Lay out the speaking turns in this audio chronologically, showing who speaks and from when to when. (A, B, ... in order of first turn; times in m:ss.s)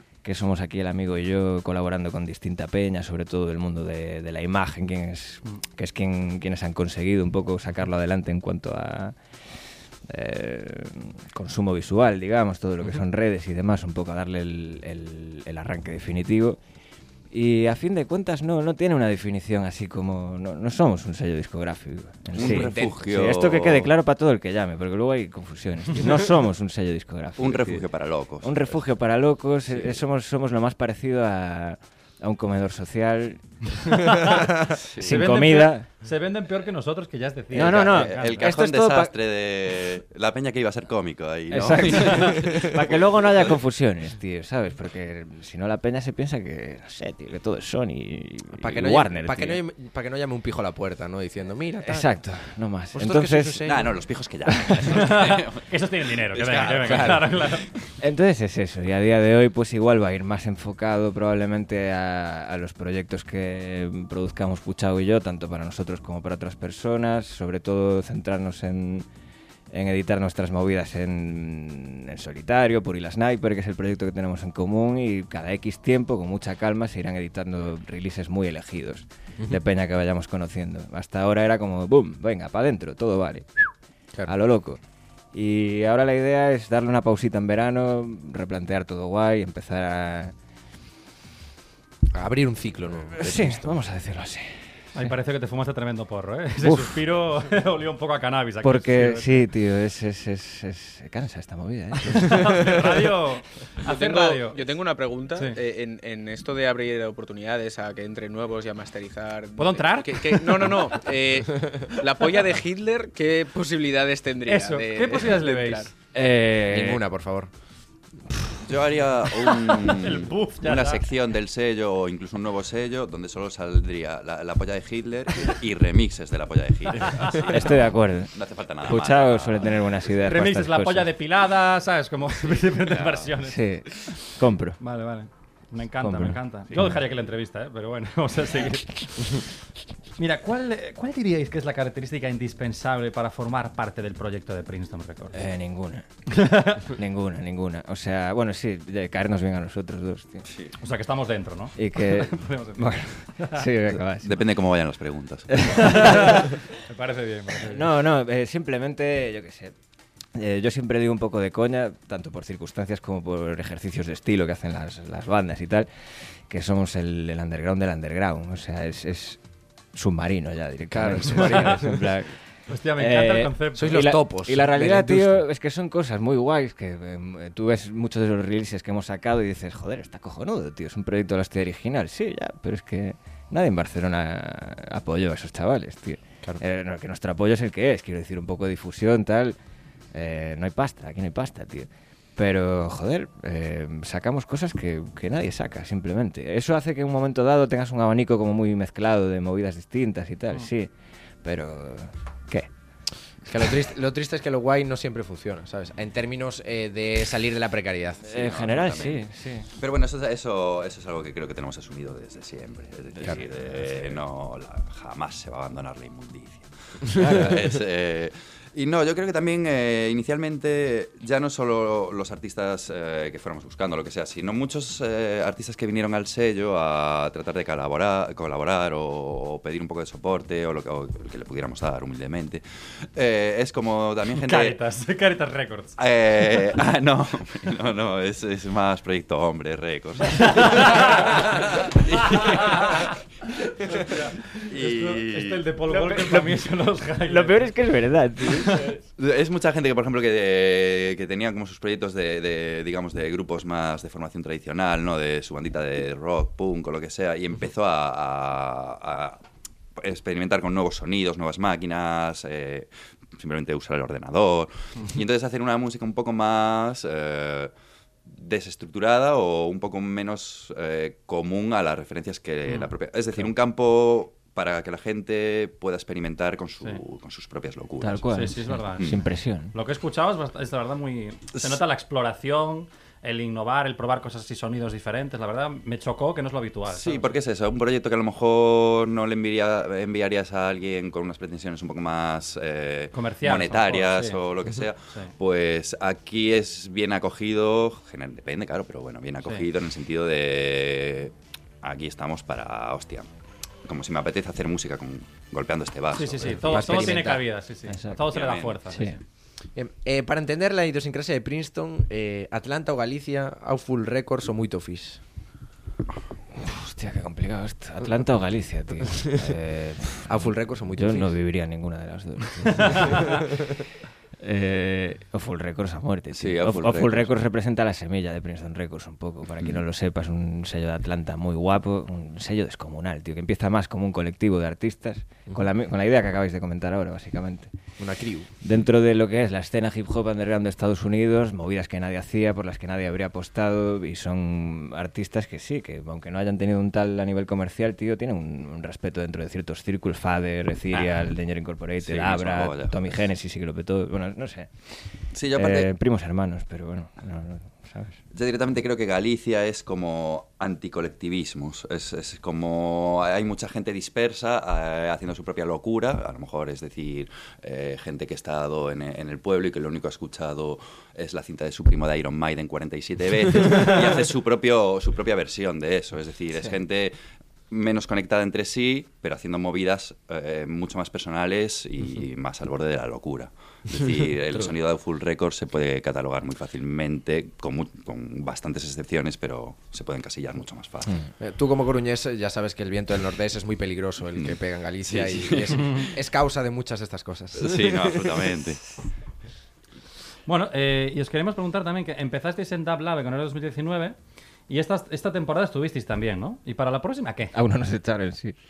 0:00.2-0:09.2 A
0:10.1-0:16.6 A
0:17.3-0:27.9 A
0:22.3-0:23.9 B
0:22.4-0:22.9 C
0:27.4-0:28.8 B
0:28.4-0:35.9 A
0:29.7-0:30.0 B
0:33.9-0:38.5 D
0:34.7-0:35.3 B
0:37.5-0:39.1 A
0:37.6-0:43.6 B
0:41.5-0:49.6 A
0:48.5-0:52.1 C
0:51.8-0:53.8 A
0:52.9-0:53.9 C
0:53.6-0:55.7 B
0:54.9-0:57.7 D
0:56.3-0:57.5 B
0:56.8-0:57.2 C
0:58.0-1:09.1 A
1:09.7-1:23.7 A
1:24.3-1:24.8 A
1:25.3-1:30.3 A
1:32.1-1:33.8 C
1:33.1-1:34.5 A
1:35.0-1:39.4 D
1:36.6-1:37.0 A
1:38.6-1:42.9 A
1:42.1-1:44.6 D
1:43.8-1:55.9 E
1:49.6-1:50.7 D
1:54.5-1:55.9 D
1:56.1-1:57.0 A
1:56.7-1:57.5 C
1:58.7-2:09.9 B
1:59.7-2:01.0 D
2:07.5-2:11.1 A
2:10.2-2:13.6 D
2:12.7-2:13.3 B
2:13.4-2:14.8 A
2:14.8-2:19.4 D
2:16.0-2:17.0 A
2:20.2-2:25.4 D
2:25.3-2:30.4 A
2:26.3-2:26.8 D
2:30.5-2:30.8 B
2:30.8-2:33.7 D
2:31.8-2:34.4 A
2:34.2-2:36.0 B
2:35.6-2:36.6 A
2:35.7-2:37.9 D
2:37.6-2:39.8 A
2:40.4-2:45.9 A
2:46.5-2:49.4 A
2:49.9-2:52.4 A
2:50.9-2:52.2 C
2:52.7-2:54.1 D
2:53.0-3:09.6 A
2:53.8-2:55.5 C
3:10.1-3:20.9 A
3:21.4-3:22.7 A
3:23.5-3:28.3 C
3:28.2-3:29.2 B
3:28.3-3:29.7 A
3:29.8-3:54.8 B
3:37.2-3:37.5 A
3:54.3-3:56.0 D
3:56.0-4:03.2 B
4:00.4-4:03.1 D
4:03.8-4:07.7 D
4:03.8-4:05.7 B
4:05.9-4:06.6 A
4:07.2-4:09.0 A
4:08.5-4:08.9 D
4:09.2-4:19.4 B
4:20.0-4:27.7 B
4:28.3-4:39.2 B
4:38.0-4:39.8 A
4:38.3-4:39.2 D
4:39.7-4:47.3 D
4:46.9-5:03.3 B
4:53.1-4:54.4 D
5:03.8-5:07.2 B
5:06.1-5:09.2 D
5:06.7-5:07.4 C
5:06.8-5:07.4 A
5:07.9-5:08.2 A
5:08.2-5:08.8 B
5:08.9-5:09.2 A
5:09.8-5:15.2 C
5:16.6-5:23.7 A
5:20.2-5:21.4 C
5:24.4-5:37.7 A
5:26.3-5:27.3 B
5:38.0-5:38.5 C
5:38.6-5:54.7 A
5:50.9-5:51.3 B
5:52.0-5:53.1 B
5:55.3-5:55.9 B
5:55.5-5:58.2 A
5:58.3-6:17.2 B
6:17.7-6:31.2 B
6:31.4-6:38.4 C
6:35.1-6:36.1 B
6:37.6-6:38.8 B
6:40.5-6:44.2 D
6:44.7-6:47.5 D
6:47.5-6:48.6 A